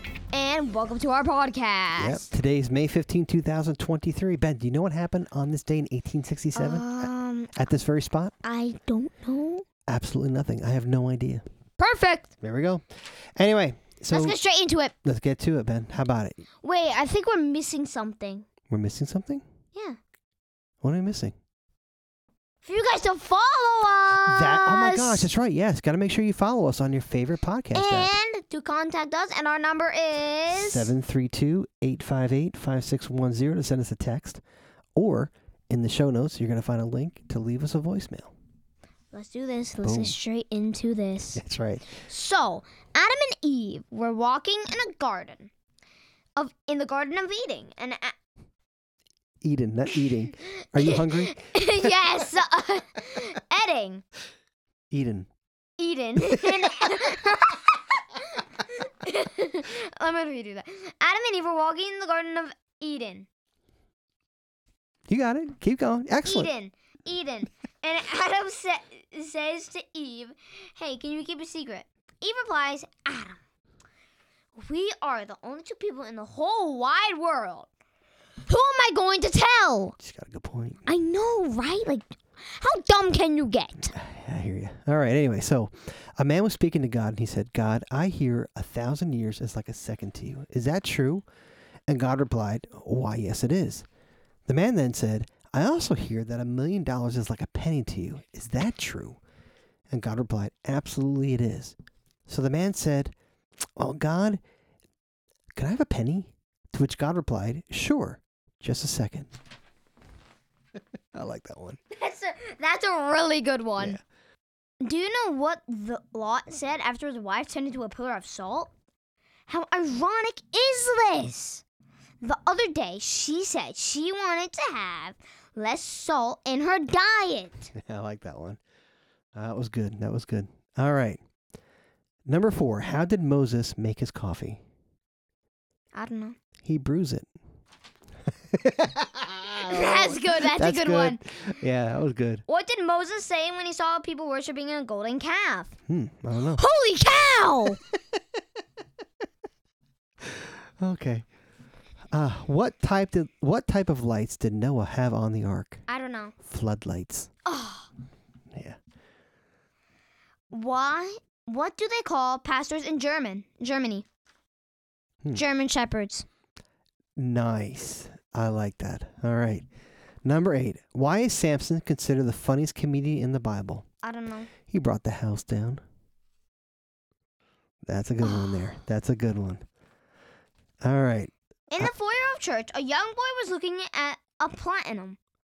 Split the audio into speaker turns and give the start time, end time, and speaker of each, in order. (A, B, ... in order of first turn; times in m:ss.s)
0:00.3-0:02.3 A
0:02.0-0:08.3 B
0:06.6-0:07.5 A
0:08.4-0:09.6 A
0:09.9-0:11.4 B
0:11.8-0:12.3 A
0:12.4-0:14.4 B
0:14.1-0:14.9 A
0:15.0-0:16.4 B
0:16.6-0:18.5 A
0:18.7-0:19.4 B
0:19.7-0:20.0 A
0:20.8-0:21.3 B
0:22.6-0:25.3 A
0:24.3-0:28.2 B
0:27.7-0:30.9 A
0:30.5-0:34.4 B
0:35.0-0:38.3 B
0:39.1-0:45.5 A
0:39.8-0:40.2 B
0:41.4-0:41.9 B
0:46.4-0:48.1 A
0:49.4-0:51.9 B
0:50.8-0:54.0 A
0:54.9-0:55.3 B
0:55.8-1:03.3 A
0:56.3-0:56.6 B
1:05.1-1:06.5 B
1:06.2-1:13.4 A
1:14.6-1:17.7 A
1:18.5-1:20.0 A
1:20.0-1:20.9 B
1:20.9-1:24.0 A
1:23.9-1:31.2 B
1:31.9-1:33.9 B
1:34.5-1:39.2 B
1:39.9-1:41.8 B
1:42.3-1:43.1 B
1:43.8-1:44.4 B
1:45.6-1:49.3 B
1:51.1-1:51.8 B
1:51.9-1:54.0 A
1:54.8-1:58.7 A
1:59.5-2:01.6 A
2:02.2-2:07.7 A
2:07.8-2:08.6 B
2:09.3-2:11.2 B
2:12.3-2:14.6 B
2:15.9-2:16.4 A
2:16.6-2:17.3 B
2:18.5-2:22.4 B
2:19.6-2:21.2 A
2:22.5-2:25.8 A
2:25.9-2:26.6 B
2:26.6-2:27.8 A
2:30.3-2:31.3 B
2:32.1-2:35.8 B
2:35.9-2:36.4 A
2:36.4-2:37.3 B
2:37.5-2:37.9 A
2:38.5-2:38.8 B
2:40.5-2:44.0 A
2:45.3-2:46.3 A
2:47.2-2:49.7 B
2:50.2-2:53.8 B
2:54.0-2:54.5 A
2:54.7-2:55.8 B
2:57.8-2:59.6 B
2:58.2-2:58.8 A
3:00.8-3:01.9 B
3:01.7-3:05.2 A